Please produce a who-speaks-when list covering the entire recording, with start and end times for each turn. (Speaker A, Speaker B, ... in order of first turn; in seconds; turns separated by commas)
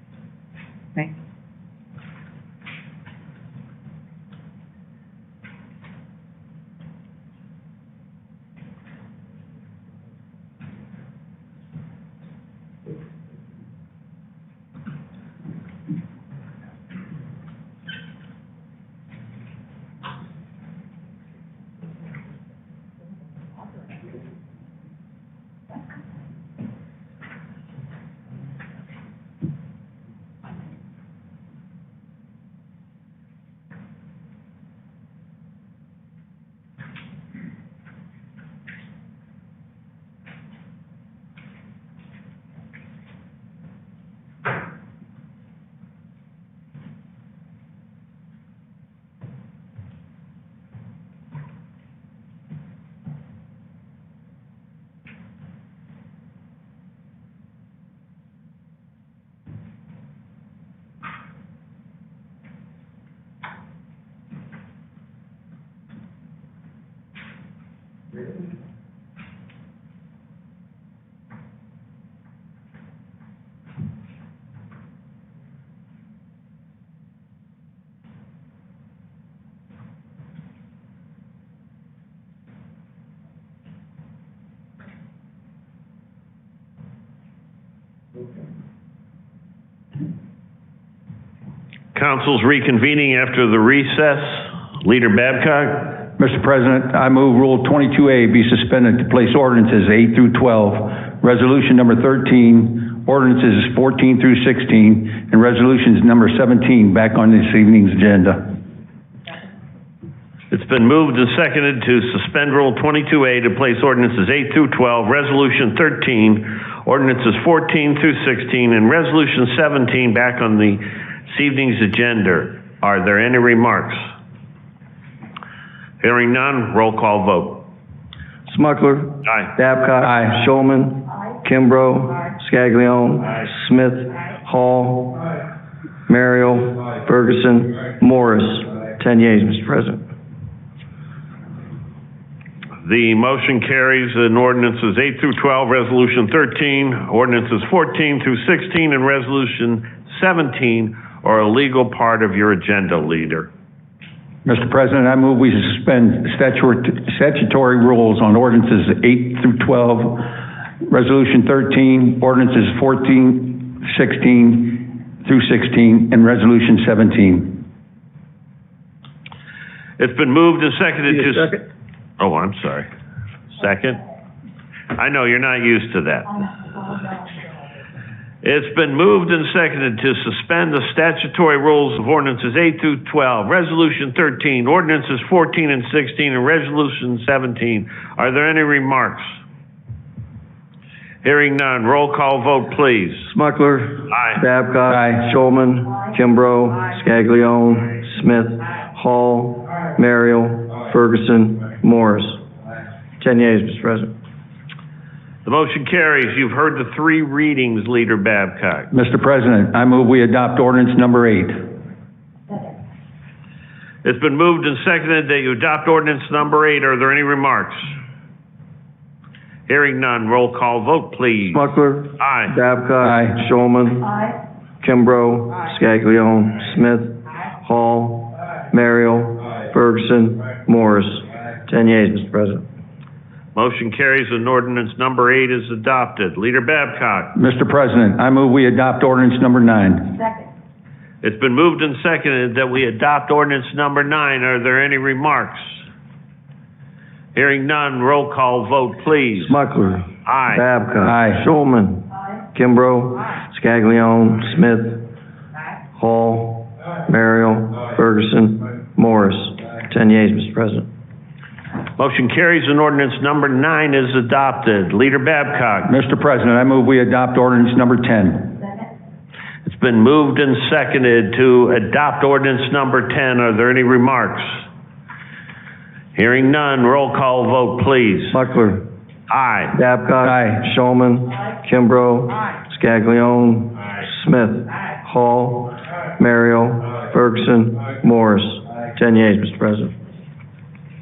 Speaker A: 91.9-96.0, Speaker B: 96.2-108.6, Speaker A: 110.5-124.0, Speaker A: 126.0-127.7, Speaker C: 128.5-135.2, Speaker B: 130.0-130.4, Speaker C: 136.1-140.0, Speaker A: 142.8-153.5, Speaker B: 154.4-167.7, Speaker A: 170.0-171.6, Speaker A: 172.2-172.9, Speaker A: 173.6-174.0, Speaker A: 174.9-176.4, Speaker A: 178.4-189.4, Speaker A: 191.2-193.3, Speaker C: 193.3-202.4, Speaker B: 194.9-195.2, Speaker C: 203.2-204.1, Speaker A: 205.4-208.9, Speaker B: 208.9-211.7, Speaker A: 214.0-217.9, Speaker A: 219.7-222.5, Speaker C: 221.5-224.2, Speaker B: 223.0-223.4, Speaker C: 224.8-232.6, Speaker A: 233.5-237.3, Speaker B: 237.3-240.2, Speaker A: 241.2-245.8, Speaker A: 247.3-249.6, Speaker C: 249.4-255.1, Speaker A: 250.2-250.6, Speaker B: 251.0-251.4, Speaker C: 255.9-260.9, Speaker A: 262.0-265.9, Speaker B: 265.8-268.7, Speaker A: 269.6-274.6, Speaker A: 276.1-278.4, Speaker C: 278.3-278.9, Speaker A: 279.3-279.8, Speaker C: 279.7-290.0, Speaker B: 280.2-280.6